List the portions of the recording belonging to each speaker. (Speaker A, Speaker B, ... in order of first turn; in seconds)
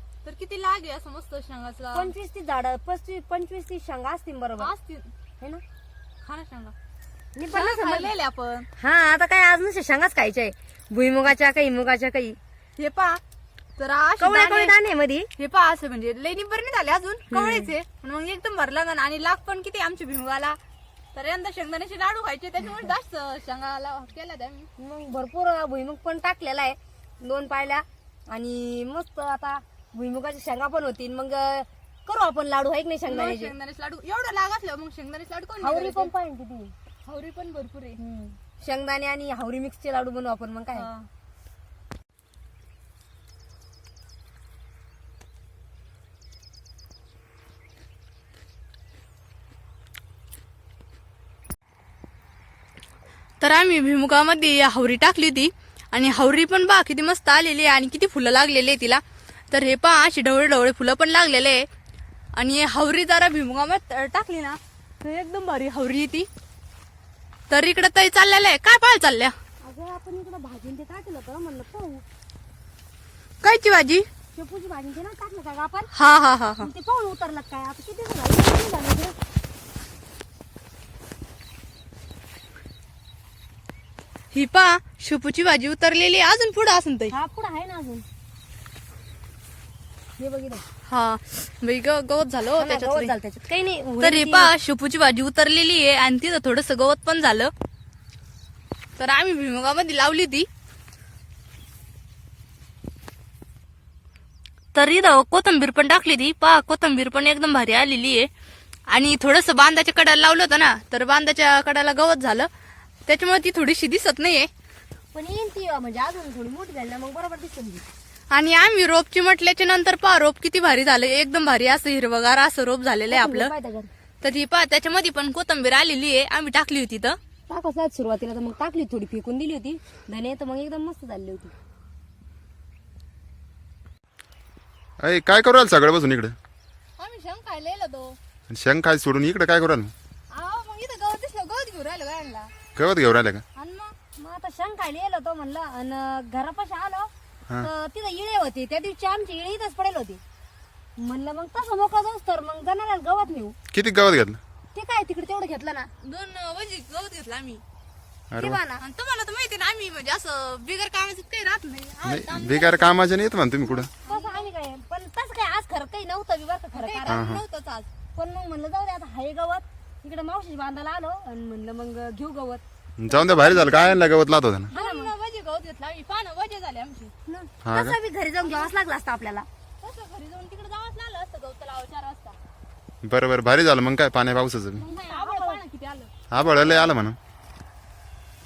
Speaker A: 0.2-2.1, 4.6-5.1, 6.2-6.8, 7.5-8.7, 12.8-13.2, 13.8-14.8, 15.4-20.6, 21.1-24.7, 33.0-36.1, 37.0-38.0, 40.7-41.1, 53.4-61.7, 62.3-66.3, 67.5-69.4, 73.4-74.1, 75.9-76.7, 84.3-87.2, 90.9-93.2, 94.0-97.5, 99.0-100.5, 104.7-108.3, 108.9-112.5, 113.1-114.5, 118.3-123.5, 124.2-127.2, 137.0-138.2, 140.3-142.5, 143.6-144.0, 156.0-157.6, 158.8-163.1, 164.0-164.5, 166.7-167.9, 173.4-174.0, 174.7-177.1, 178.4-178.7, 179.8-182.4, 184.8-186.1
Speaker B: 1.9-4.7, 7.3-8.1, 8.8-12.4, 14.2-15.3, 17.3-17.7, 24.8-33.5, 35.6-36.7, 38.0-40.9, 69.6-72.0, 74.3-75.9, 76.6-79.2, 87.1-88.0, 90.2-90.7, 92.6-94.5, 115.1-117.8, 123.1-123.9, 127.5-131.5, 144.2-150.2, 151.0-153.6, 154.7-155.9, 158.4-158.8, 163.6-167.2, 168.2-173.9, 174.7-175.1, 177.3-179.5, 184.8-185.6
Speaker C: 135.0-136.3, 138.5-139.9, 142.8-143.4, 153.7-154.4, 158.3-158.6, 162.1-163.9, 167.1-167.4, 173.0-174.7, 177.7-178.0, 183.0-184.8, 186.3-187.2